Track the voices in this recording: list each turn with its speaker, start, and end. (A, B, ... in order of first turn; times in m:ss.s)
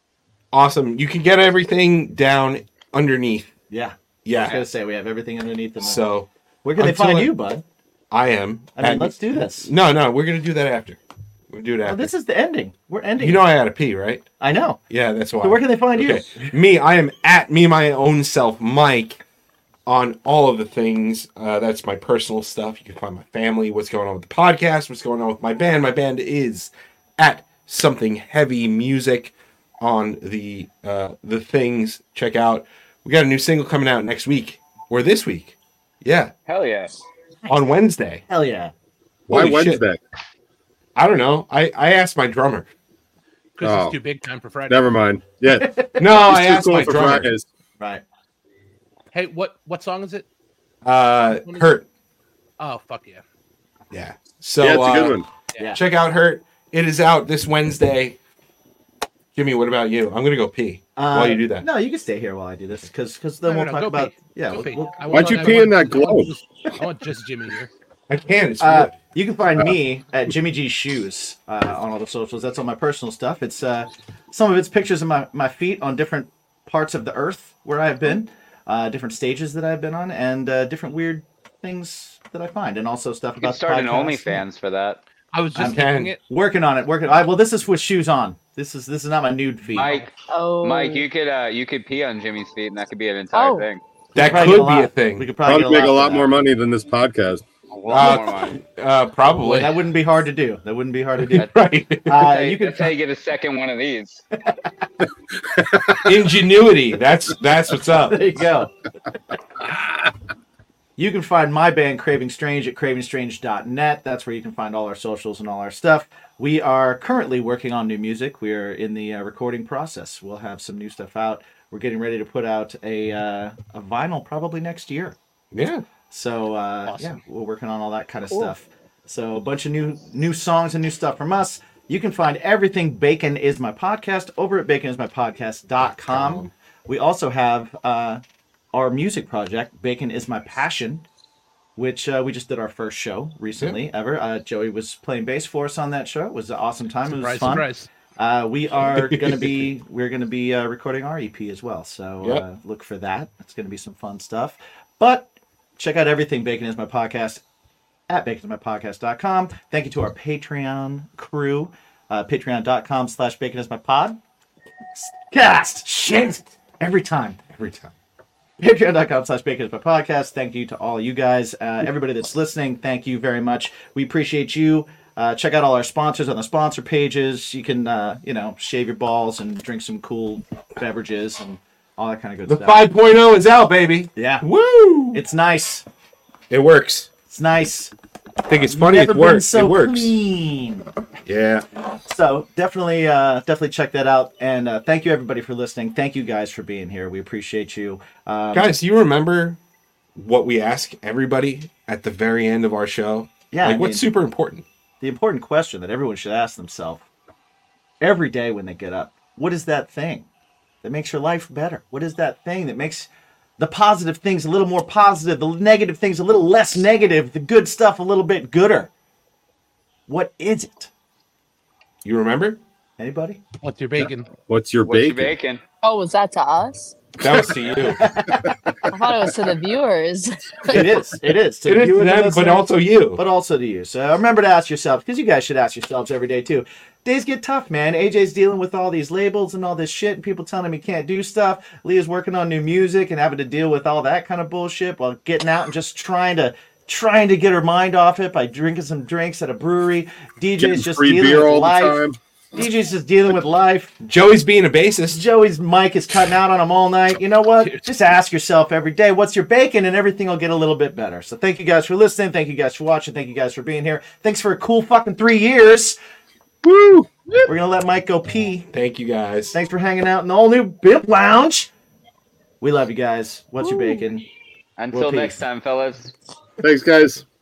0:00.5-0:03.5 A
0:03.7-0:06.0 B
0:04.2-0:04.6 A
0:05.8-0:07.3 A
0:06.6-0:07.6 B
0:08.1-0:11.0 A
0:08.8-0:09.7 B
0:11.5-0:12.1 A
0:11.9-0:13.5 B
0:13.2-0:14.3 A
0:14.4-0:14.8 B
0:14.9-0:19.2 A
0:15.4-0:16.5 B
0:19.9-0:36.3 A
0:36.5-0:36.9 C
0:37.5-0:38.2 A
0:38.3-0:38.7 B
0:39.3-0:40.0 D
0:39.3-0:39.8 A
0:41.0-0:42.7 A
0:43.6-0:44.8 E
0:43.6-0:44.0 D
0:44.7-0:47.5 D
0:46.0-0:47.3 A
0:49.1-0:50.3 E
0:50.8-0:51.8 A
0:51.3-0:51.7 E
0:52.6-0:53.2 E
0:53.9-0:55.2 A
0:54.6-0:55.3 D
0:55.8-0:58.2 A
0:59.4-1:01.7 A
1:01.0-1:05.6 B
1:03.4-1:07.7 E
1:05.1-1:06.3 D
1:08.1-1:09.0 A
1:08.6-1:24.4 B
1:23.4-1:25.0 C
1:25.3-1:26.2 E
1:25.6-1:29.9 B
1:25.6-1:26.2 A
1:29.8-1:30.1 E
1:29.8-1:30.1 C
1:30.3-1:31.1 F
1:30.6-1:33.8 C
1:33.3-1:33.7 F
1:34.2-1:35.3 A
1:34.2-1:36.3 B
1:35.5-1:37.4 D
1:37.7-1:38.6 C
1:37.9-1:39.8 A
1:39.5-1:41.5 B
1:41.3-1:42.2 A
1:42.1-1:43.0 B
1:42.2-1:44.2 C
1:45.6-1:46.0 D
1:46.0-1:48.4 A
1:48.1-1:48.7 B
1:51.0-2:05.2 B
2:05.5-2:05.8 A
2:06.1-2:18.2 B
2:06.8-2:07.2 E
2:16.0-2:16.5 A
2:18.7-2:21.0 B
2:21.8-2:37.4 B
2:27.1-2:27.9 E
2:28.8-2:29.7 A
2:38.1-2:44.2 B
2:45.0-2:47.4 B
2:47.5-2:47.9 A
2:48.6-3:02.8 B
3:02.5-3:05.2 A
3:04.2-3:04.4 B
3:05.1-3:05.8 B
3:06.5-3:07.1 A
3:07.3-3:07.9 B
3:08.5-3:10.1 A
3:08.6-3:10.9 B
3:11.3-3:11.6 A
3:12.0-3:18.7 B
3:18.5-3:19.6 A
3:20.2-3:24.6 A
3:23.5-3:24.1 B
3:25.0-3:27.0 B
3:28.0-3:30.3 B
3:30.8-3:38.9 B
3:40.1-3:40.9 B
3:42.0-3:42.6 A
3:43.0-3:43.4 B
3:43.6-3:44.3 E
3:44.5-3:45.4 D
3:44.8-3:45.6 C
3:45.8-3:47.0 F
3:47.2-3:48.0 A
3:48.0-3:48.5 B
3:48.9-3:50.9 F
3:50.7-4:12.0 B
3:51.6-3:53.2 A
4:10.6-4:12.2 D
4:12.6-4:14.0 B
4:14.0-4:15.2 A
4:15.1-4:26.0 B
4:17.6-4:17.9 E
4:26.6-4:27.5 D
4:27.5-4:28.7 B
4:28.7-4:29.6 A
4:29.5-4:31.7 B
4:32.6-4:34.3 B
4:33.6-4:34.0 F
4:34.8-4:36.1 C
4:34.9-4:35.4 B
4:36.6-4:37.2 D